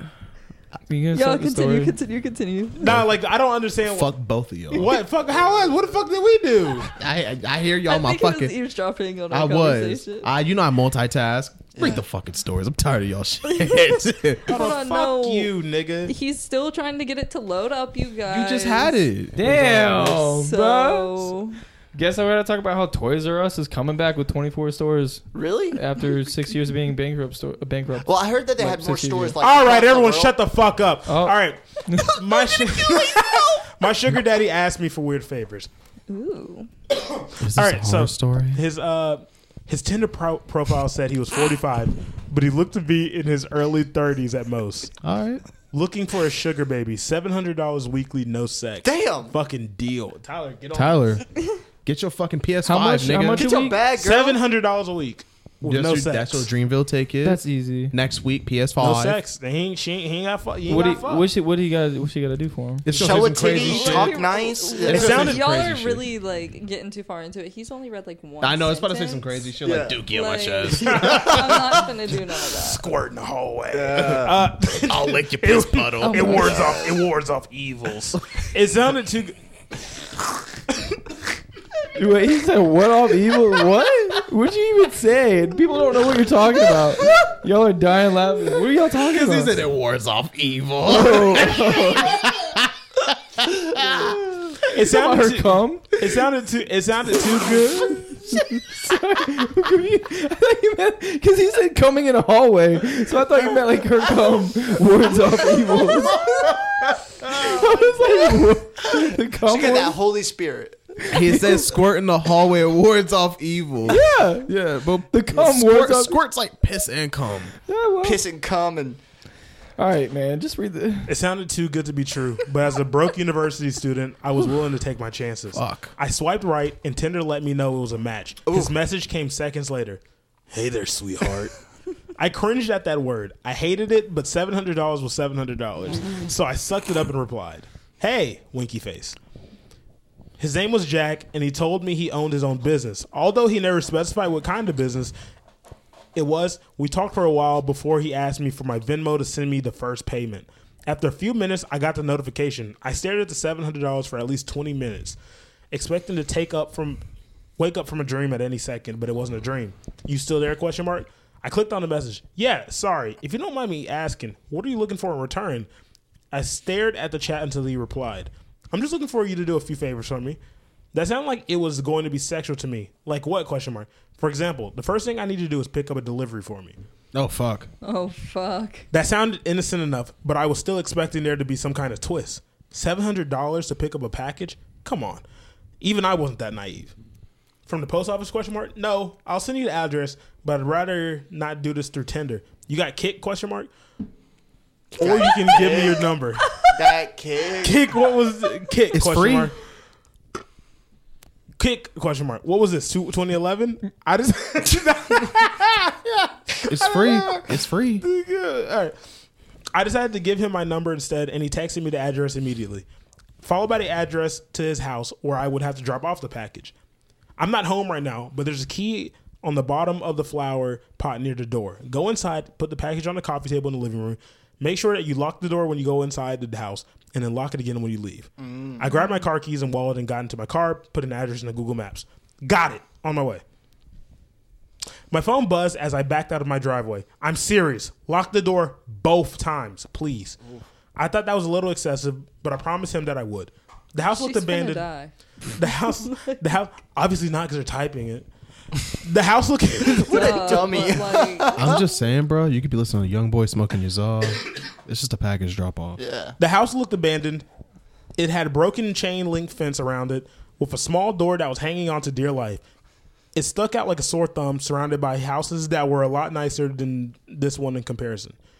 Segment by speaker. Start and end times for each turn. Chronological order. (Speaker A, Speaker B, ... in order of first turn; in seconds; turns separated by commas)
Speaker A: 0.9-1.9, Speaker B: 1.1-3.0, Speaker C: 2.8-4.2, Speaker D: 2.8-3.1, Speaker D: 3.8-5.0, Speaker C: 4.7-6.9, Speaker D: 6.8-8.6, Speaker B: 7.8-10.3, Speaker D: 9.3-14.6, Speaker E: 11.7-12.0, Speaker B: 13.4-15.5, Speaker C: 14.5-16.1, Speaker B: 16.1-19.0, Speaker D: 18.3-20.3, Speaker A: 19.4-21.3, Speaker B: 20.3-21.6, Speaker A: 21.9-29.4, Speaker E: 25.3-25.8, Speaker E: 28.0-30.4, Speaker C: 29.4-35.7, Speaker A: 31.1-32.1, Speaker E: 32.2-33.8, Speaker B: 36.1-36.7, Speaker C: 37.0-44.9, Speaker D: 37.4-38.6, Speaker D: 45.0-45.4, Speaker C: 45.7-51.2, Speaker E: 48.8-49.3, Speaker D: 50.7-51.2, Speaker D: 51.8-53.5, Speaker A: 52.6-53.8, Speaker E: 53.3-54.4, Speaker C: 54.0-56.5, Speaker D: 55.6-59.2, Speaker A: 57.2-58.0, Speaker C: 58.8-61.2, Speaker A: 60.7-62.9, Speaker D: 62.9-64.3, Speaker E: 62.9-65.3, Speaker C: 62.9-64.1, Speaker B: 63.5-72.8, Speaker D: 64.8-66.0, Speaker C: 64.8-65.6, Speaker D: 68.4-71.7, Speaker E: 69.6-70.0, Speaker C: 70.7-71.9, Speaker C: 72.4-79.3, Speaker E: 73.7-74.5, Speaker D: 74.9-77.0, Speaker B: 76.1-76.6, Speaker A: 81.9-89.6, Speaker D: 89.0-94.7, Speaker A: 90.8-92.2, Speaker A: 94.5-96.0, Speaker C: 94.7-98.2, Speaker A: 97.3-106.5, Speaker E: 105.5-106.6, Speaker D: 107.2-107.5, Speaker E: 107.2-107.9, Speaker A: 107.3-110.0, Speaker E: 108.8-111.1, Speaker A: 111.0-111.7, Speaker D: 111.1-117.5, Speaker A: 113.9-116.2, Speaker A: 117.7-118.2, Speaker E: 118.0-119.0, Speaker A: 119.8-121.2, Speaker C: 121.1-131.5, Speaker D: 125.5-125.9, Speaker E: 128.5-128.7, Speaker C: 132.2-139.2, Speaker C: 140.4-145.1, Speaker C: 146.1-155.2, Speaker C: 155.7-157.0, Speaker C: 157.6-165.7, Speaker C: 166.3-170.4, Speaker C: 170.9-176.8, Speaker D: 177.1-177.7, Speaker B: 177.8-178.9, Speaker C: 178.9-185.2, Speaker C: 185.8-186.9, Speaker C: 187.7-193.7, Speaker E: 194.9-196.1, Speaker C: 195.0-196.6, Speaker E: 196.6-197.9, Speaker C: 197.6-199.5, Speaker D: 198.9-199.5, Speaker C: 201.6-208.9, Speaker D: 206.7-208.0, Speaker C: 209.7-212.8, Speaker C: 213.4-216.7, Speaker C: 217.4-233.4, Speaker E: 228.4-229.0, Speaker C: 235.1-240.4, Speaker C: 240.9-244.8, Speaker B: 244.1-246.4, Speaker C: 245.5-248.3, Speaker C: 248.9-250.9, Speaker E: 250.0-251.8, Speaker B: 250.1-251.7, Speaker D: 251.5-256.0, Speaker E: 256.0-256.4, Speaker C: 256.4-257.4, Speaker C: 258.1-262.6, Speaker C: 263.3-268.4